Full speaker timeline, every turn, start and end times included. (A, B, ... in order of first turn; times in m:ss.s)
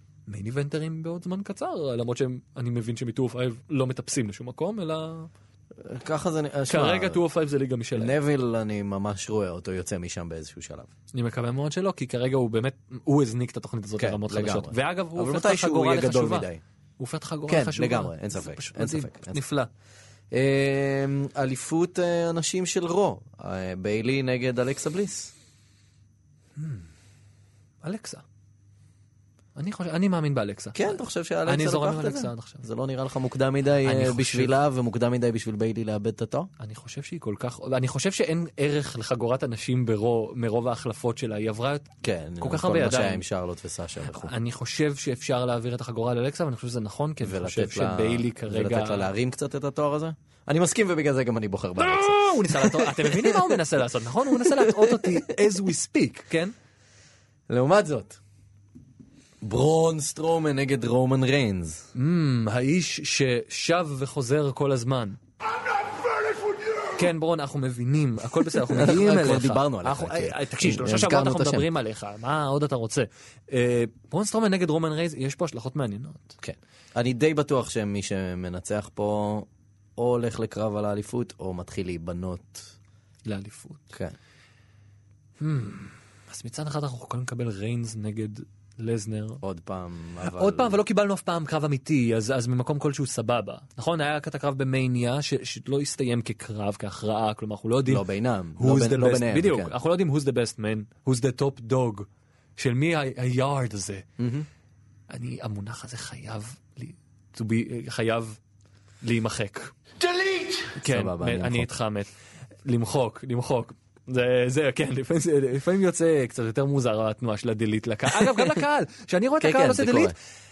0:00.3-0:05.3 A
0:05.8-0:07.2 B
0:06.7-0:08.1 A
0:08.0-0:10.9 B
0:11.1-0:16.5 A
0:14.0-0:16.6 B
0:17.0-0:19.7 A
0:17.5-0:19.4 B
0:20.3-0:25.3 B
0:26.6-0:26.9 A
0:27.8-0:28.2 A
0:29.6-0:32.6 A
0:30.7-0:36.5 B
0:33.8-0:34.5 A
0:36.6-0:43.2 A
0:42.0-0:44.3 B
0:44.1-0:49.1 A
0:47.2-0:53.5 B
0:51.8-0:56.5 A
0:54.4-0:55.2 B
0:57.5-0:58.2 B
0:59.4-1:01.8 B
1:01.9-1:05.2 A
1:06.9-1:16.4 A
1:08.7-1:11.7 B
1:16.4-1:22.7 B
1:23.2-1:23.9 A
1:25.4-1:29.4 A
1:29.4-1:30.8 B
1:30.2-1:38.0 A
1:37.8-1:39.7 B
1:38.6-1:44.0 A
1:44.2-1:44.5 B
1:45.1-1:48.4 A
1:49.0-1:49.7 A
1:50.6-1:52.1 A
1:50.8-1:51.7 B
1:52.6-2:00.1 A
1:59.4-2:00.1 B